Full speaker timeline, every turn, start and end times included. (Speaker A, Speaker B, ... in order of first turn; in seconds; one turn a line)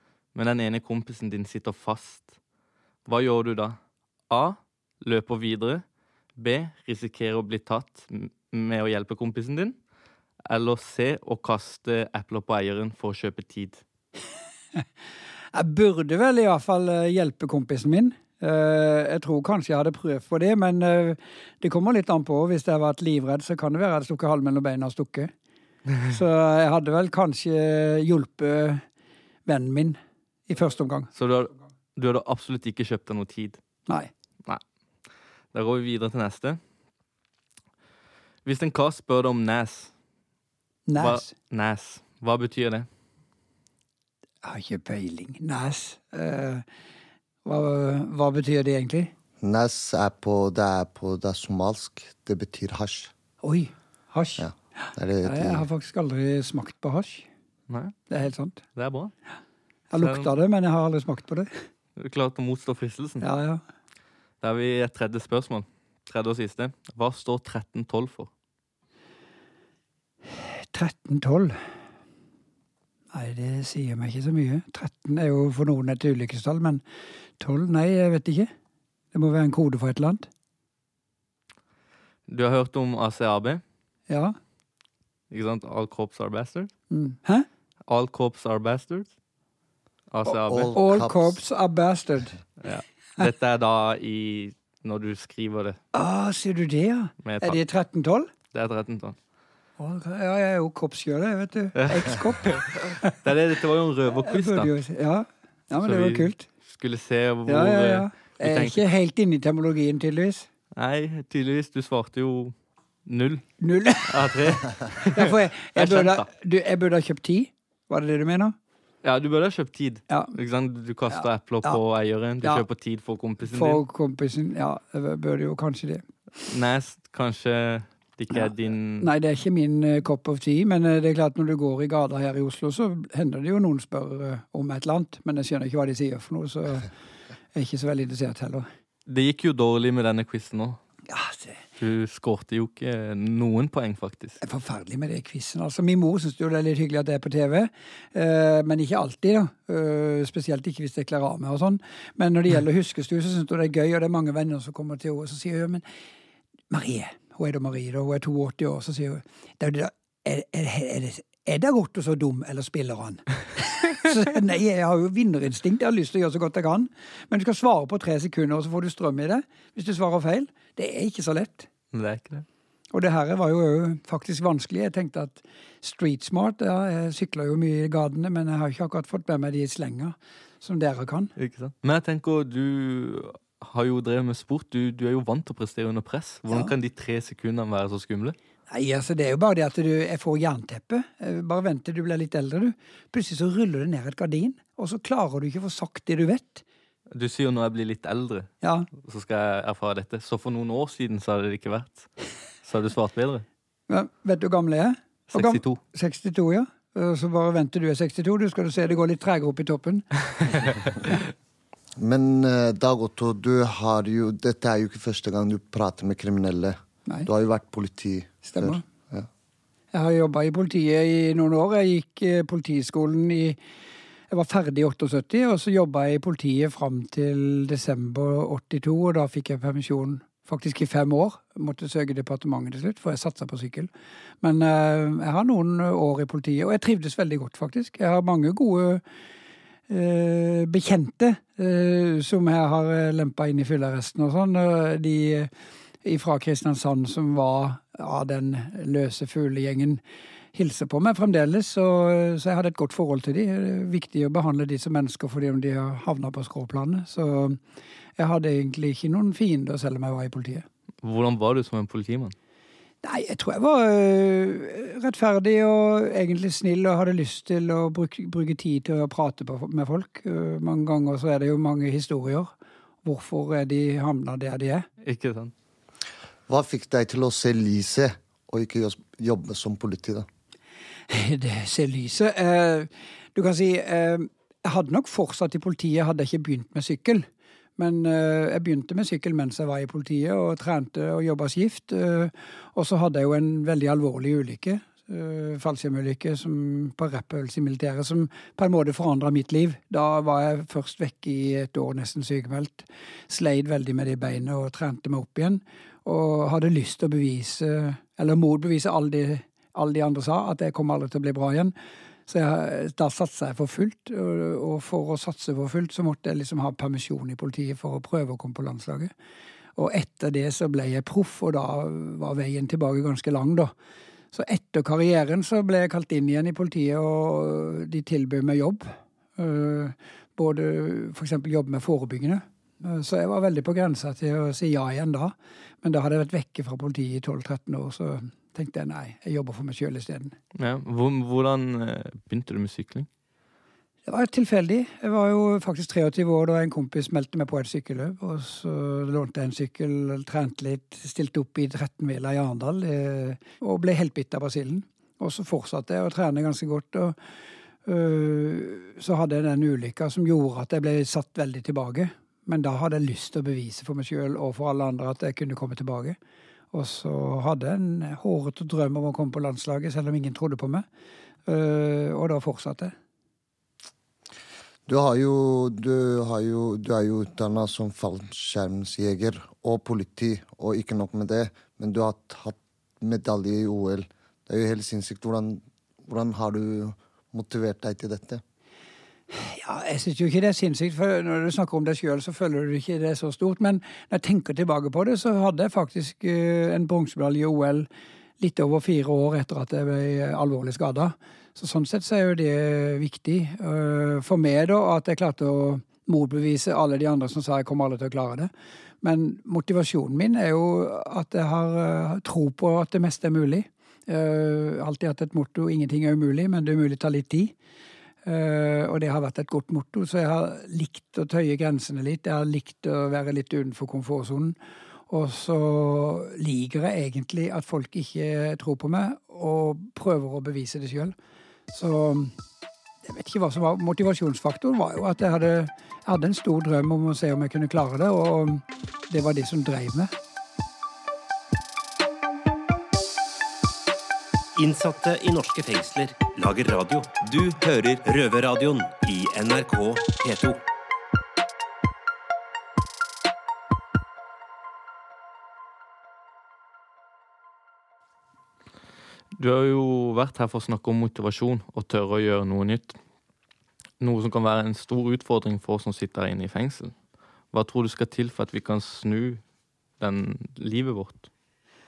Speaker A: 0.3-2.3
Speaker A: 3.0-3.8
Speaker A: 4.3-5.8
Speaker A: 6.4-9.8
Speaker A: 10.5-13.8
Speaker B: 15.5-25.3
Speaker B: 26.1-28.8
Speaker B: 29.4-31.1
Speaker A: 31.1-33.6
Speaker A: 35.5-36.6
Speaker A: 38.4-39.9
Speaker B: 40.9-41.3
Speaker A: 41.0-42.9
Speaker B: 44.4-46.6
Speaker B: 47.4-49.1
Speaker C: 49.4-53.1
Speaker B: 53.4-54.5
Speaker C: 54.4-55.7
Speaker B: 55.2-57.3
Speaker A: 57.7-58.0
Speaker B: 58.1-58.6
Speaker A: 58.7-59.1
Speaker B: 59.9-61.5
Speaker A: 60.0-60.3
Speaker A: 62.0-63.2
Speaker B: 63.2-63.6
Speaker A: 64.4-68.3
Speaker B: 70.3-71.6
Speaker B: 73.1-76.8
Speaker B: 77.4-78.5
Speaker B: 79.1-80.3
Speaker A: 82.3-83.6
Speaker B: 84.1-84.3
Speaker A: 85.3-86.7
Speaker B: 86.9-87.5
Speaker A: 87.9-89.1
Speaker A: 90.1-90.8
Speaker C: 90.3-91.4
Speaker B: 90.7-92.4
Speaker A: 92.6-95.8
Speaker B: 95.9-98.3
Speaker A: 97.2-97.6
Speaker A: 98.5-99.2
Speaker B: 99.8-103.3
Speaker A: 101.8-102.7
Speaker A: 103.2-104.7
Speaker B: 104.2-106.5
Speaker A: 105.8-108.8
Speaker B: 107.5-110.5
Speaker A: 110.7-112.5
Speaker A: 113.0-116.3
Speaker B: 113.6-118.5
Speaker A: 119.0-123.8
Speaker B: 121.1-121.8
Speaker B: 123.4-126.0
Speaker A: 126.4-129.1
Speaker B: 128.3-136.9
Speaker B: 137.5-138.7
Speaker A: 139.1-140.8
Speaker B: 141.1-141.6
Speaker A: 141.8-144.4
Speaker B: 144.4-155.8
Speaker B: 156.7-171.7
Speaker A: 171.9-172.4
Speaker B: 172.9-181.3
Speaker A: 181.4-188.3
Speaker B: 188.7-196.6
Speaker A: 197.1-202.1
Speaker B: 198.6-198.9
Speaker A: 202.6-203.4
Speaker B: 203.9-210.9
Speaker A: 205.3-205.8
Speaker C: 212.0-219.3
Speaker B: 218.4-218.8
Speaker B: 219.9-223.6
Speaker B: 224.3-233.9
Speaker B: 234.4-239.0
Speaker B: 239.9-245.5
Speaker B: 246.0-250.0
Speaker B: 250.5-257.6
Speaker B: 258.2-260.6
Speaker A: 261.0-262.3
Speaker B: 263.0-272.5
Speaker B: 273.0-274.9
Speaker A: 275.0-275.5
Speaker C: 276.5-280.3
Speaker B: 281.1-287.2
Speaker B: 287.8-311.7
Speaker B: 312.3-319.1
Speaker B: 319.8-323.7
Speaker B: 324.3-340.3
Speaker A: 340.5-343.1
Speaker B: 344.1-357.1
Speaker B: 357.9-366.1
Speaker B: 366.7-370.8
Speaker B: 371.5-372.9
Speaker C: 374.9-388.4
Speaker B: 389.3-397.9
Speaker B: 398.4-408.5
Speaker B: 409.0-417.5
Speaker B: 418.2-424.5
Speaker B: 425.1-431.1
Speaker B: 431.7-432.3
Speaker B: 433.0-440.1
Speaker D: 444.5-450.6
Speaker A: 459.4-463.0
Speaker A: 464.0-466.9
Speaker A: 467.5-469.4
Speaker A: 470.0-471.3